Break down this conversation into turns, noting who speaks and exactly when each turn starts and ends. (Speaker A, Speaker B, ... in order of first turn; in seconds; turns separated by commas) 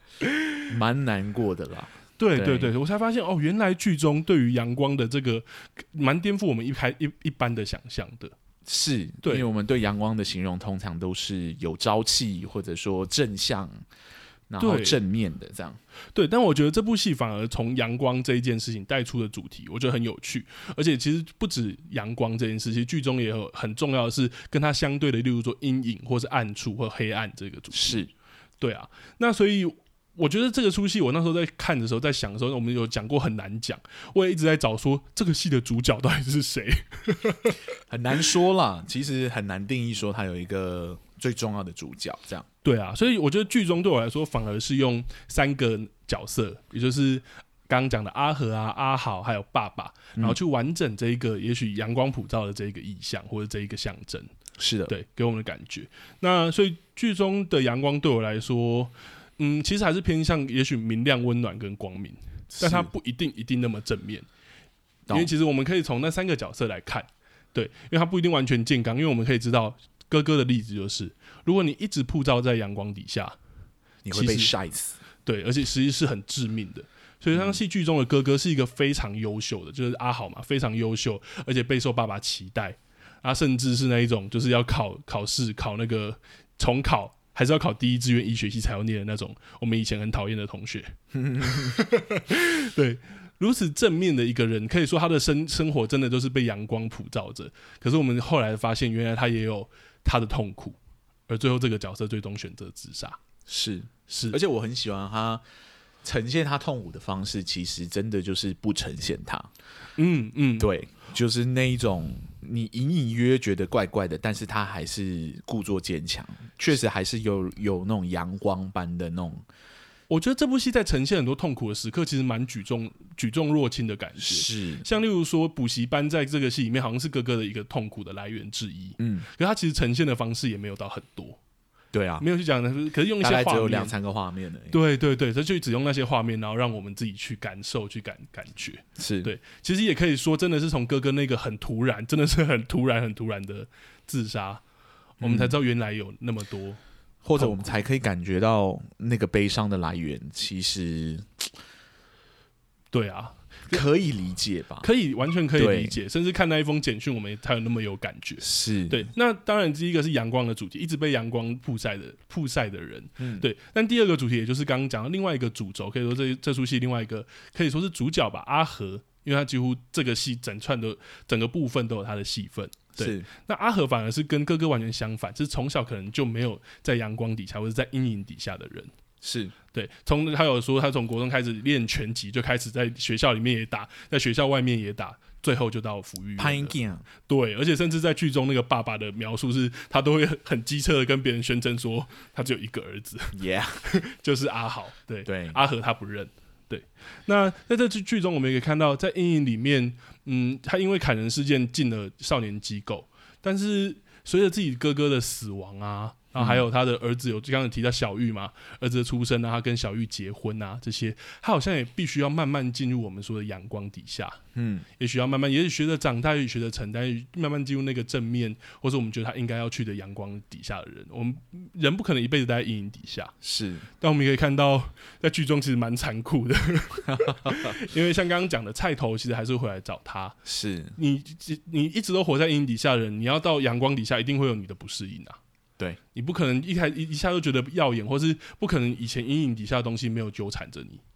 Speaker A: 0.7-2.7, Speaker B: 2.2-8.3, Speaker A: 8.7-13.7, Speaker A: 14.5-15.8, Speaker B: 14.6-15.0, Speaker B: 16.1-28.1, Speaker A: 27.7-28.1, Speaker B: 28.6-37.6, Speaker A: 37.9-42.5, Speaker B: 42.6-54.3, Speaker A: 54.6-54.9, Speaker B: 54.9-64.3, Speaker A: 62.5-62.9, Speaker B: 65.1-73.4, Speaker A: 74.0-75.0, Speaker B: 74.1-74.5, Speaker B: 75.3-100.8, Speaker A: 77.3-77.6, Speaker A: 91.1-91.8, Speaker B: 101.3-103.2, Speaker A: 103.5-105.4, Speaker B: 104.1-104.4, Speaker A: 106.0-109.5, Speaker B: 110.0-110.7, Speaker A: 110.6-119.4, Speaker B: 120.1-131.4, Speaker A: 124.2-124.9, Speaker A: 129.0-129.3, Speaker A: 131.9-132.2, Speaker B: 132.2-133.9, Speaker A: 133.2-134.8, Speaker B: 134.7-144.6, Speaker A: 139.0-139.3, Speaker A: 145.2-145.6, Speaker B: 145.2-146.8, Speaker A: 147.2-151.5, Speaker B: 147.4-147.7, Speaker B: 152.9-153.8, Speaker A: 153.7-154.9, Speaker B: 154.8-178.9, Speaker A: 155.6-156.0, Speaker A: 158.4-159.1, Speaker A: 163.2-163.4, Speaker A: 173.0-173.3, Speaker A: 179.2-179.5, Speaker B: 179.7-186.7, Speaker A: 186.4-187.1, Speaker B: 187.3-214.4, Speaker A: 193.3-193.8, Speaker A: 195.3-195.6, Speaker A: 206.3-206.7, Speaker A: 214.6-214.9, Speaker B: 215.0-223.3, Speaker A: 223.4-223.9, Speaker B: 224.0-230.4, Speaker A: 227.1-227.8, Speaker A: 230.4-230.9, Speaker B: 231.0-235.4, Speaker B: 236.2-241.0